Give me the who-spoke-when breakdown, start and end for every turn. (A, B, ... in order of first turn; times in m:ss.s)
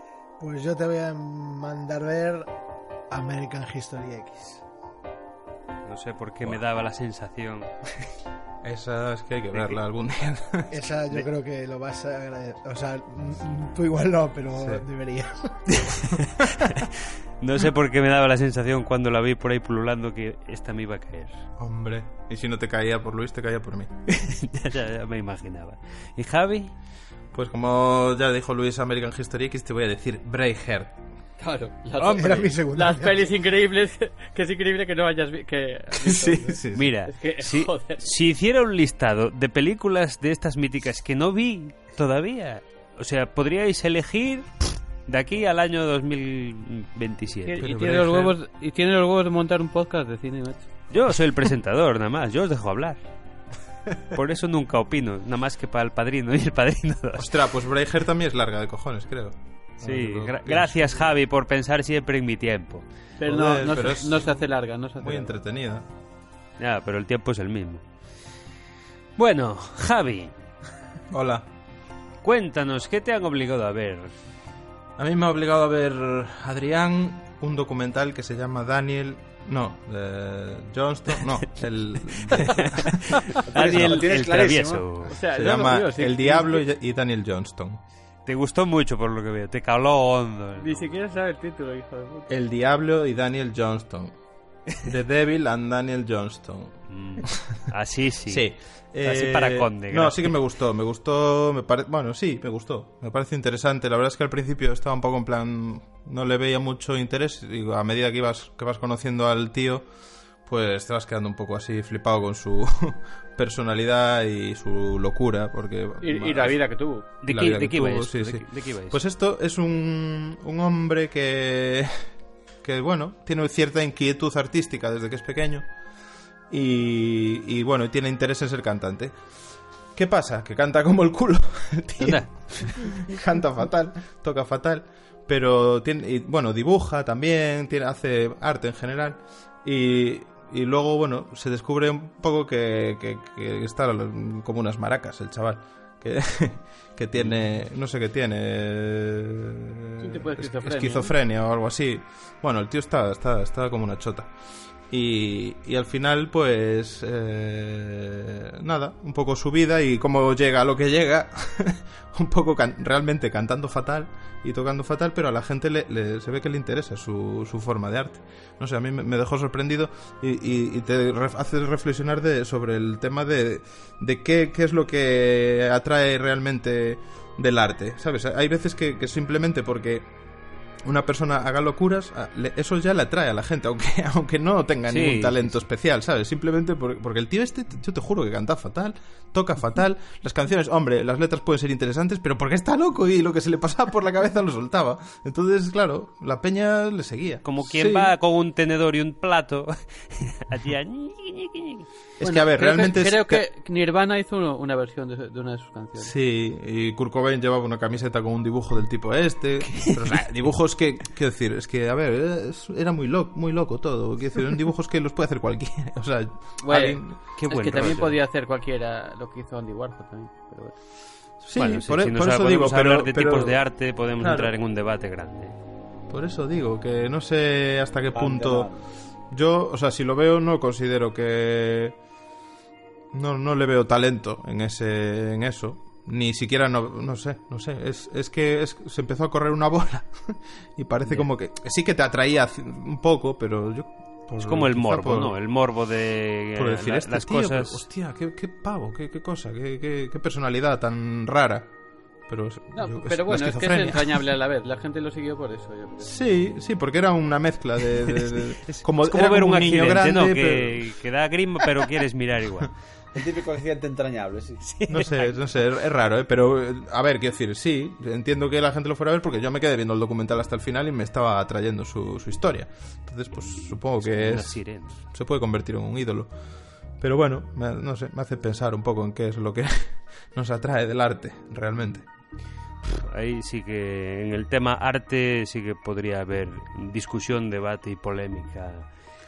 0:00.4-0:02.5 A
0:03.1-0:04.6 A
0:05.8-0:07.7 B
0:08.6-0:11.2 C
0:09.5-0:09.8 B
0:10.7-0:16.0 A
0:14.6-0:14.8 C
0:15.8-0:21.4 B
0:21.6-0:23.9 C
0:24.1-0:26.7 B
0:27.3-0:31.0 C
0:31.4-0:38.0 D
0:32.0-0:32.5 B
0:32.2-0:33.2 A
0:36.0-0:36.9 C
0:36.7-0:47.6 B
0:47.4-0:50.7 D
0:47.6-0:48.4 C
0:50.9-0:53.0 B
0:54.1-0:57.3 B
0:57.2-1:00.9 C
0:59.8-1:02.8 B
1:03.2-1:05.3 D
1:03.2-1:04.4 C
1:05.0-1:05.8 C
1:06.6-1:07.8 B
1:09.2-1:10.4 B
1:11.1-1:11.5 C
1:12.2-1:14.1 B
1:15.0-1:22.9 C
1:22.1-1:25.2 B
1:23.4-1:24.8 E
1:25.1-1:26.6 D
1:25.3-1:27.8 C
1:28.2-1:30.9 B
1:30.6-1:32.3 D
1:32.3-1:37.6 C
1:36.9-1:40.4 B
1:38.3-2:05.7 C
1:56.0-1:57.0 D
1:57.2-1:59.0 B
2:06.5-2:09.3 C
2:09.9-3:00.1 C
2:12.0-2:12.9 B
2:30.0-2:31.1 D
3:00.8-3:18.1 C
3:04.9-3:05.6 B
3:17.4-3:21.9 B
3:22.2-3:23.4 C
3:22.2-3:26.1 D
3:26.0-3:38.0 C
3:29.7-3:30.0 B
3:36.6-3:40.8 D
3:37.4-3:38.2 B
3:41.4-3:44.5 C
3:41.5-3:45.6 B
3:46.1-3:52.0 C
3:48.1-3:48.8 E
3:53.1-4:05.4 C
4:04.4-4:07.8 B
4:06.5-4:11.7 C
4:12.2-4:14.2 C
4:12.7-4:16.2 D
4:16.0-4:20.9 C
4:18.6-4:22.8 B
4:23.2-4:24.6 E
4:24.6-4:25.4 B
4:24.9-4:42.1 C
4:33.4-4:35.0 B
4:43.0-4:48.9 B